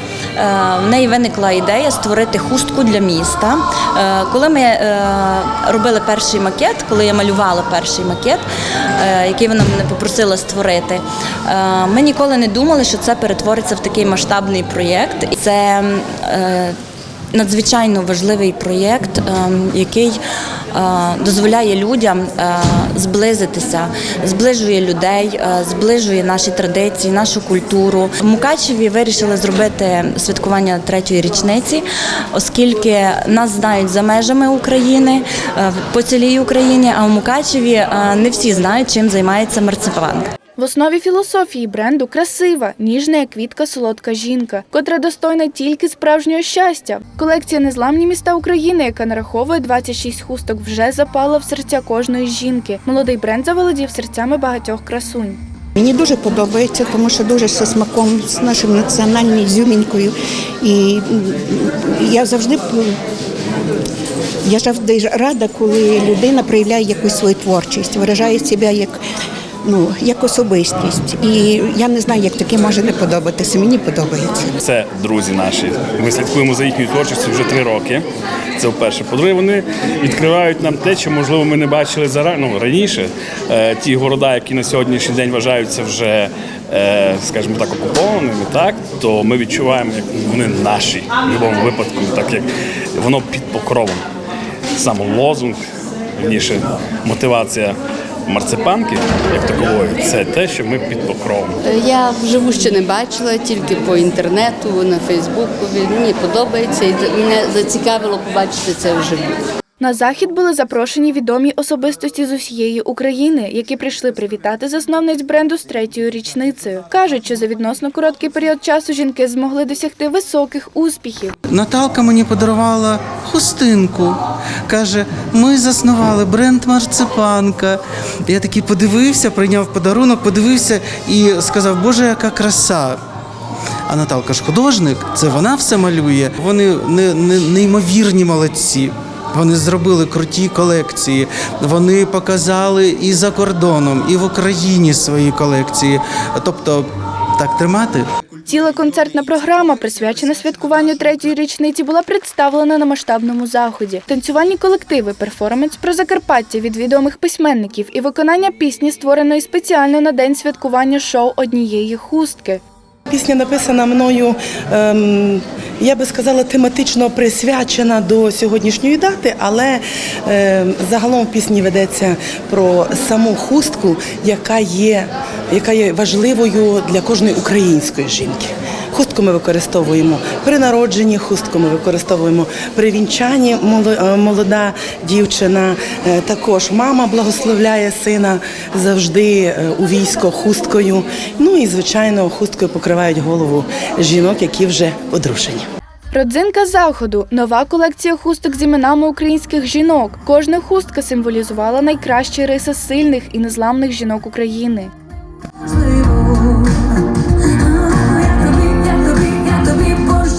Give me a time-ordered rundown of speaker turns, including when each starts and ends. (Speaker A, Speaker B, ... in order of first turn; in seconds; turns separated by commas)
Speaker A: 0.4-8.4, Speaker A: 9.0-16.8, Speaker A: 17.3-20.2, Speaker A: 20.7-40.3, Speaker B: 40.6-55.4, Speaker C: 55.8-62.8, Speaker C: 64.5-69.0, Speaker C: 69.7-74.5, Speaker D: 74.6-78.0, Speaker D: 78.6-94.0, Speaker D: 94.8-95.6, Speaker D: 96.2-101.6, Speaker E: 101.6-109.3, Speaker B: 109.8-121.3, Speaker F: 121.5-133.0, Speaker F: 133.9-148.1, Speaker B: 148.5-162.6, Speaker G: 163.1-195.7, Speaker B: 196.1-204.9, Speaker A: 208.3-208.7